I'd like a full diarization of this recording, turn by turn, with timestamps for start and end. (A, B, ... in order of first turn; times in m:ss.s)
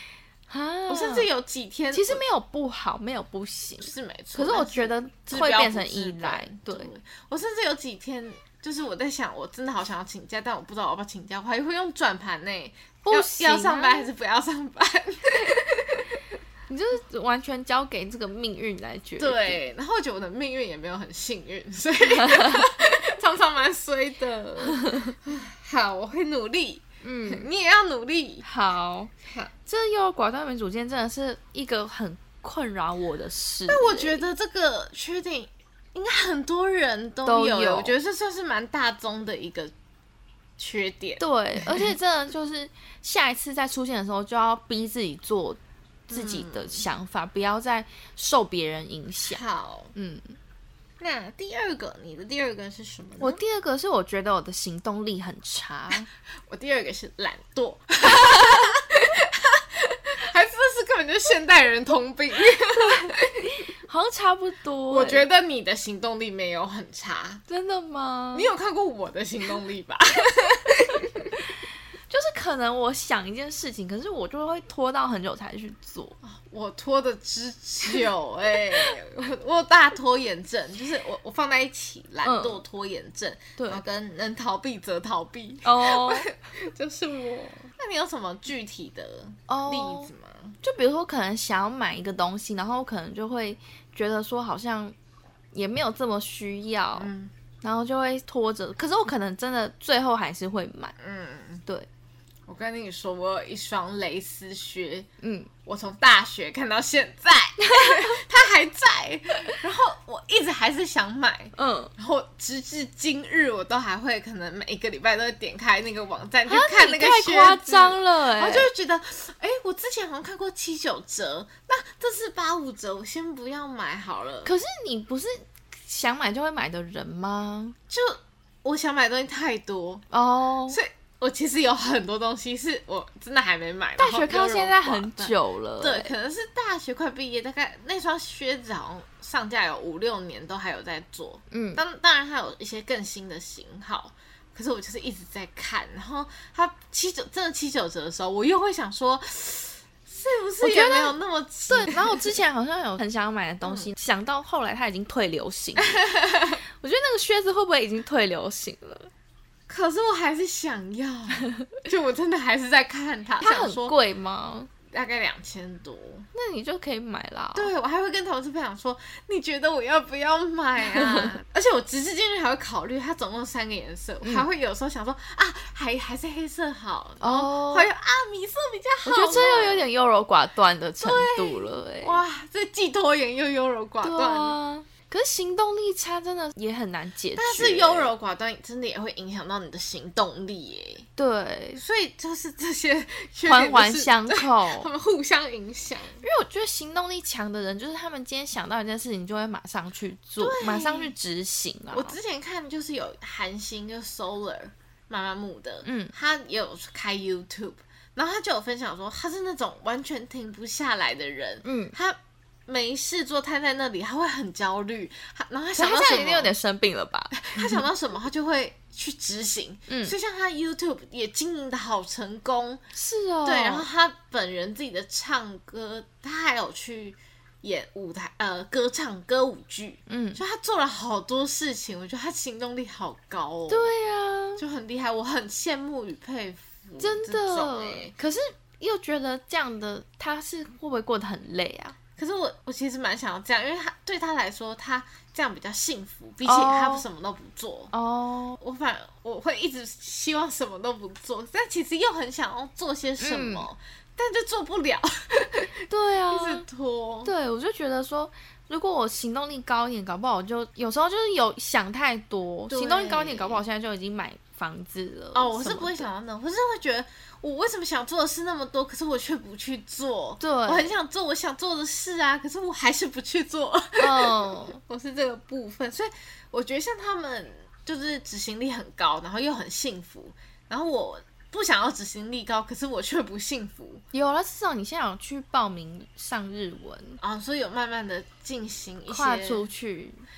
0:00.5-0:01.3 A
0:00.9-0:02.2 B
0:01.9-0:06.9 A
0:03.8-0:16.2 B
0:13.0-0:14.1 A
0:16.7-0:19.6 A
0:19.2-0:28.4 B
0:22.2-0:22.6 A
0:24.8-0:25.1 A
0:27.0-0:27.5 A
0:28.4-0:29.1 A
0:29.2-0:29.5 B
0:29.6-0:34.2 A
0:33.7-0:39.7 B
0:37.2-0:38.0 A
0:40.6-0:41.9 B
0:41.2-0:45.6 A
0:46.1-0:46.8 B
0:46.1-0:49.4 A
0:49.3-0:49.9 B
0:49.9-0:50.4 A
0:51.0-0:53.4 B
0:53.2-0:56.1 A
0:56.5-1:03.4 B
1:02.7-1:05.2 A
1:04.9-1:07.4 B
1:07.5-1:08.5 A
1:08.3-1:11.4 B
1:12.1-1:16.2 A
1:16.2-1:30.6 B
1:22.2-1:22.6 A
1:23.6-1:23.8 A
1:25.6-1:26.3 A
1:29.5-1:30.1 A
1:30.6-1:34.9 A
1:35.5-1:37.1 A
1:37.0-1:37.3 B
1:37.6-1:40.9 A
1:41.0-1:41.6 B
1:42.5-1:45.1 B
1:45.2-1:45.5 A
1:45.6-2:04.5 B
1:47.6-1:48.2 A
1:51.6-1:51.9 A
1:56.5-1:58.7 A
2:04.4-2:07.8 A
2:07.9-2:10.0 B
2:10.1-2:10.8 A
2:10.7-2:32.3 B
2:14.0-2:16.1 A
2:21.5-2:21.8 A
2:30.6-2:31.1 A
2:31.7-2:36.0 A
2:33.6-2:33.9 B
2:35.9-2:36.6 B
2:36.8-2:39.1 A
2:39.7-2:44.0 B
2:43.4-2:44.7 A
2:44.9-2:46.3 B
2:46.3-2:47.7 A
2:47.5-2:59.9 B
2:50.9-2:51.3 A
2:57.2-2:57.9 A
2:59.0-3:02.2 A
3:01.0-3:04.6 B
3:04.0-3:08.1 A
3:07.4-3:11.1 B
3:11.2-3:11.8 A
3:11.8-3:16.2 B
3:13.4-3:14.9 A
3:16.2-3:22.2 A
3:20.4-3:21.1 B
3:21.9-3:36.5 B
3:25.8-3:26.1 A
3:31.6-3:32.0 A
3:35.8-3:37.8 A
3:37.3-3:42.8 B
3:39.9-3:40.1 A
3:42.9-3:43.9 A
3:43.4-3:53.9 B
3:50.1-3:50.4 A
3:53.7-3:54.6 A
3:54.6-3:58.1 B
3:57.0-4:02.0 A
4:02.2-4:07.9 B
4:06.4-4:07.0 A
4:07.9-4:08.6 A
4:08.6-4:17.3 B
4:13.2-4:13.7 A
4:15.9-4:16.6 A
4:17.2-4:26.1 A
4:22.7-4:23.6 B
4:25.3-4:44.0 B
4:30.4-4:30.9 A
4:34.0-4:34.8 A
4:44.1-4:47.2 A
4:47.2-4:49.6 B
4:49.1-4:50.2 A